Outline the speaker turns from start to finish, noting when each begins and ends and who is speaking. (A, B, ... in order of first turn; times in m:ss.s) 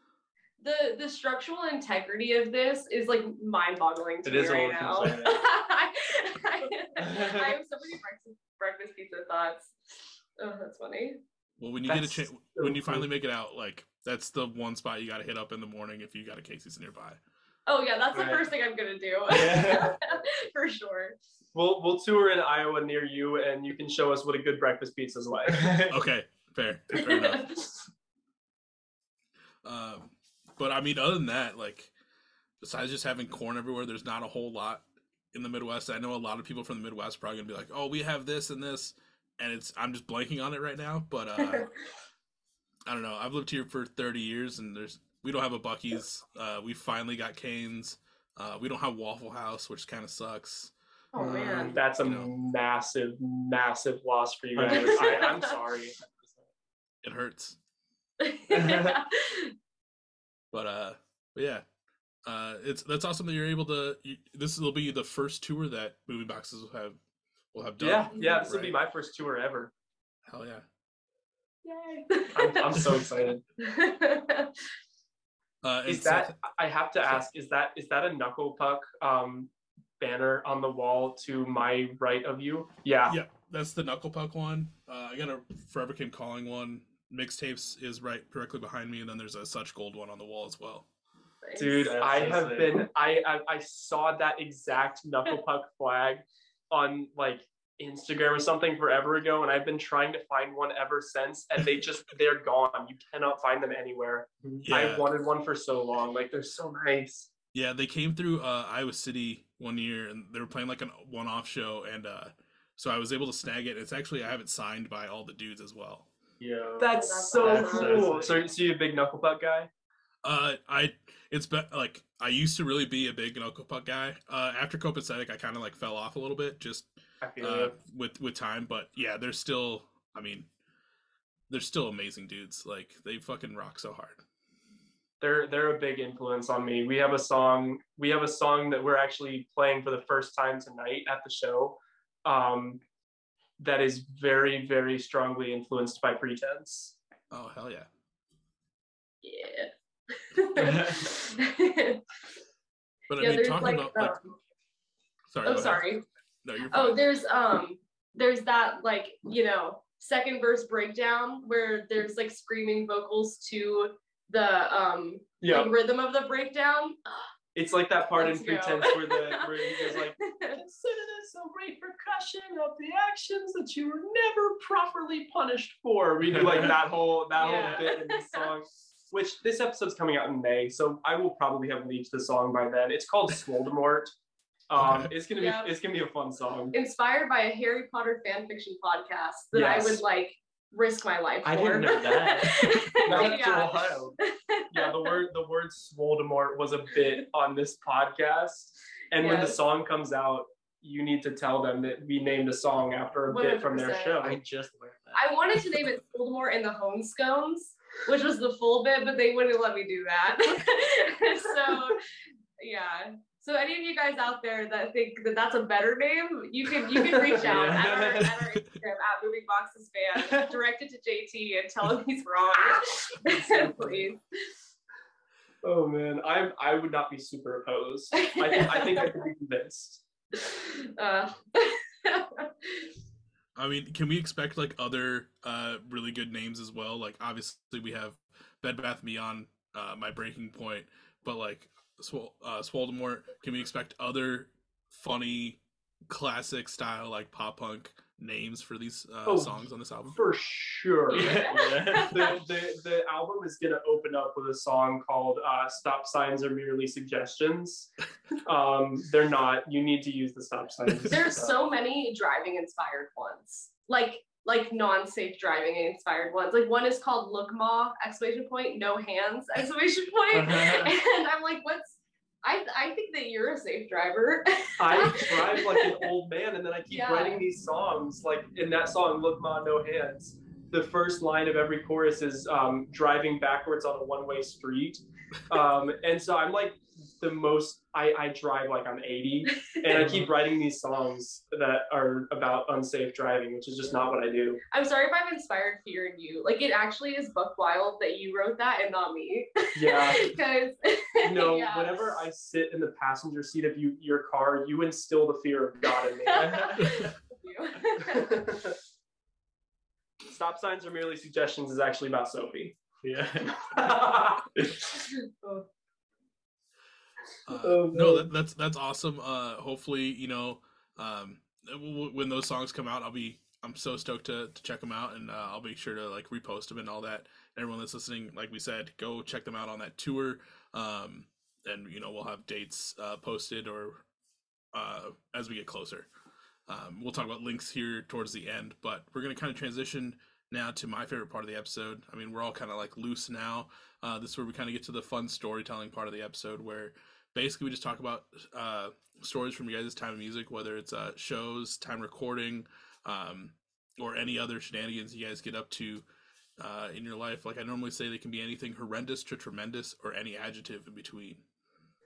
0:00.6-0:11.2 A
0:04.2-0:05.4 B
0:07.0-0:07.6 B
0:11.6-0:17.2 C
0:11.8-0:13.1 D
0:17.7-0:21.2 A
0:18.1-0:18.4 D
0:19.3-0:20.0 B
0:21.5-0:25.8 D
0:25.5-0:26.0 B
0:25.9-0:27.5 C
0:26.9-0:27.7 A
0:29.6-0:31.9 C
0:32.6-0:41.7 C
0:41.4-0:41.6 A
0:42.9-0:50.7 C
0:51.1-0:51.8 A
0:51.2-0:51.8 B
0:51.3-0:56.0 D
0:52.0-0:52.3 C
0:54.6-0:55.2 B
0:54.7-0:55.5 A
0:57.0-0:57.6 C
0:58.2-0:59.5 A
0:58.5-0:59.0 B
1:00.5-1:01.6 C
1:02.2-1:07.0 C
1:07.5-1:08.8 C
1:07.8-1:09.7 D
1:08.2-1:08.5 A
1:10.2-1:10.6 C
1:11.6-1:13.0 A
1:12.4-1:13.4 D
1:13.6-1:14.6 A
1:15.6-1:16.4 C
1:15.9-1:23.2 D
1:23.1-1:30.9 C
1:31.4-1:31.9 A
1:31.6-1:47.3 D
1:31.8-1:32.8 B
1:44.6-1:45.1 C
1:47.5-1:56.1 C
1:56.4-1:58.3 B
1:56.8-1:59.7 D
1:56.9-1:58.4 A
2:00.2-2:10.5 C
2:07.2-2:07.8 D
2:11.5-2:14.2 C
2:15.2-2:22.8 D
2:23.6-2:27.0 D
2:27.3-2:27.9 C
2:29.2-2:32.0 A
2:30.6-2:31.1 B
2:33.1-2:34.2 C
2:33.2-2:34.3 A
2:35.3-2:35.9 C
2:35.4-2:36.0 A
2:36.4-2:37.0 C
2:36.7-2:47.3 A
2:45.4-2:45.7 D
2:47.6-3:04.1 D
2:48.2-2:50.6 A
2:57.4-2:58.5 A
3:04.7-3:06.7 D
3:04.8-3:05.1 C
3:05.4-3:05.7 A
3:06.7-3:15.2 A
3:09.5-3:10.0 D
3:11.5-3:14.2 B
3:11.5-3:12.2 D
3:13.1-3:13.5 D
3:14.7-3:24.4 D
3:19.2-3:19.6 A
3:23.3-3:24.3 A
3:24.2-3:25.2 B
3:25.1-3:32.0 A
3:32.6-3:44.2 A
3:37.0-3:37.3 D
3:37.4-3:38.4 B
3:43.4-3:43.8 D
3:45.6-3:50.0 D
3:48.2-3:49.1 A
3:50.4-3:52.9 A
3:53.6-4:10.2 C
4:09.3-4:11.5 D
4:11.1-4:12.4 A
4:11.1-4:12.4 B
4:12.0-4:17.9 D
4:18.4-4:21.6 D
4:21.1-4:36.0 A
4:30.3-4:30.9 B
4:34.8-4:54.6 D
4:36.9-4:37.4 A
4:49.9-4:50.3 B
4:54.7-5:02.1 A
4:59.8-5:00.3 D
5:01.2-5:06.6 D
5:06.3-5:08.4 A
5:06.3-5:07.2 B
5:08.0-5:08.8 D
5:10.3-5:12.8 D
5:13.0-5:13.8 B
5:13.7-5:14.5 D
5:14.6-5:14.9 B
5:15.1-5:15.7 A
5:17.5-5:34.0 C
5:17.6-5:18.3 D
5:34.7-5:36.1 C
5:36.7-5:56.0 C
5:56.6-6:01.4 C